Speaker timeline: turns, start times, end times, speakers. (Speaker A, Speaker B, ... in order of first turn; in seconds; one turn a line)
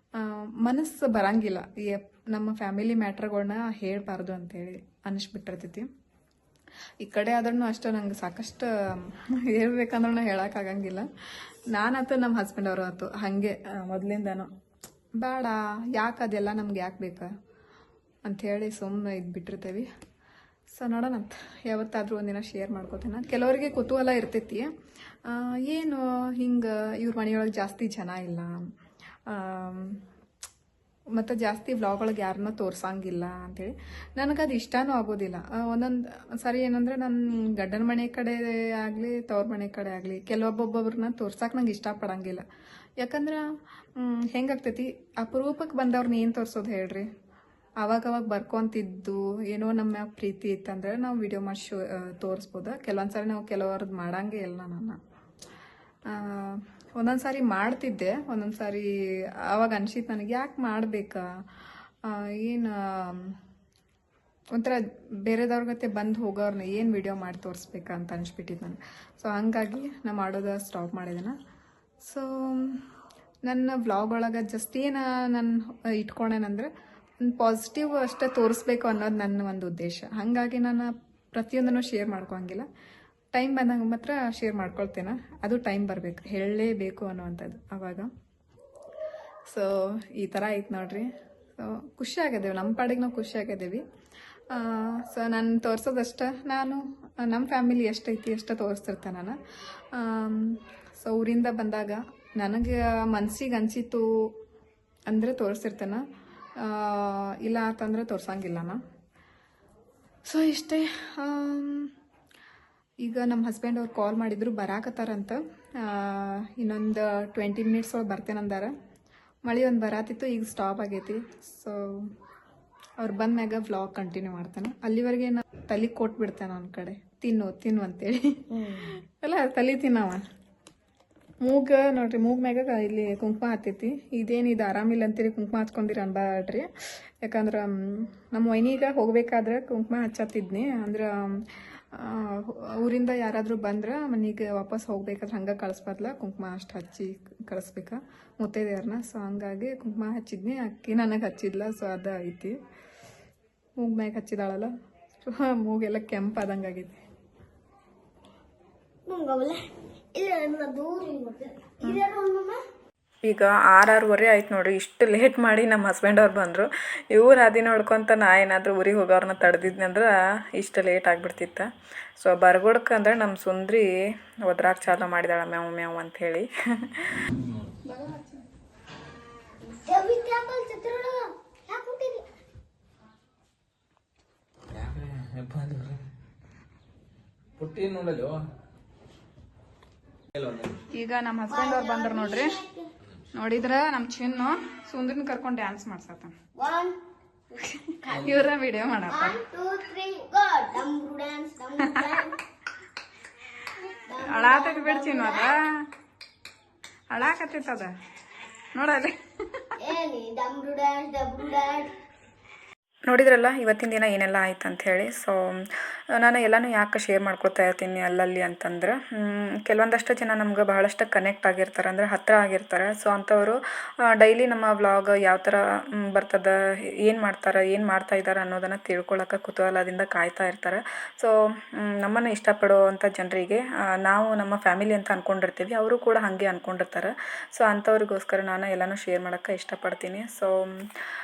Speaker A: 0.1-5.9
Speaker A: 7.0-11.1
Speaker A: 11.7-14.5
Speaker A: 15.2-17.3
Speaker A: 18.2-19.9
Speaker A: 20.7-24.7
Speaker A: 25.2-28.7
Speaker A: 29.3-30.0
Speaker A: 31.1-42.4
Speaker A: 43.0-43.5
Speaker A: 44.0-47.1
Speaker A: 47.8-55.0
Speaker A: 56.1-58.9
Speaker A: 59.4-61.3
Speaker A: 62.0-63.4
Speaker A: 64.5-71.3
Speaker A: 72.0-72.8
Speaker A: 73.5-76.7
Speaker A: 77.2-82.7
Speaker A: 83.3-88.1
Speaker A: 89.5-93.8
Speaker A: 94.5-99.4
Speaker A: 99.9-104.1
Speaker A: 105.1-106.0
Speaker A: 106.6-108.8
Speaker A: 110.3-111.9
Speaker A: 113.0-118.7
Speaker A: 119.5-122.1
Speaker A: 123.0-130.2
Speaker B: 128.5-128.9
Speaker A: 131.4-136.7
Speaker A: 137.2-152.6
Speaker A: 153.8-154.7
Speaker A: 155.2-157.0
Speaker B: 159.1-162.6
Speaker C: 163.2-177.3
Speaker A: 177.9-178.4
Speaker B: 179.8-182.2
Speaker D: 184.8-186.0
Speaker D: 187.6-188.4
Speaker D: 190.4-190.8
Speaker A: 190.9-192.6
Speaker B: 191.5-192.9
Speaker A: 193.3-196.3
Speaker B: 196.6-197.0
Speaker A: 197.7-199.4
Speaker B: 199.1-202.4
Speaker A: 201.9-202.1
Speaker B: 204.1-205.5
Speaker A: 204.2-205.7
Speaker A: 207.1-207.9
Speaker A: 208.8-209.2
Speaker B: 209.8-211.9
Speaker C: 213.1-240.9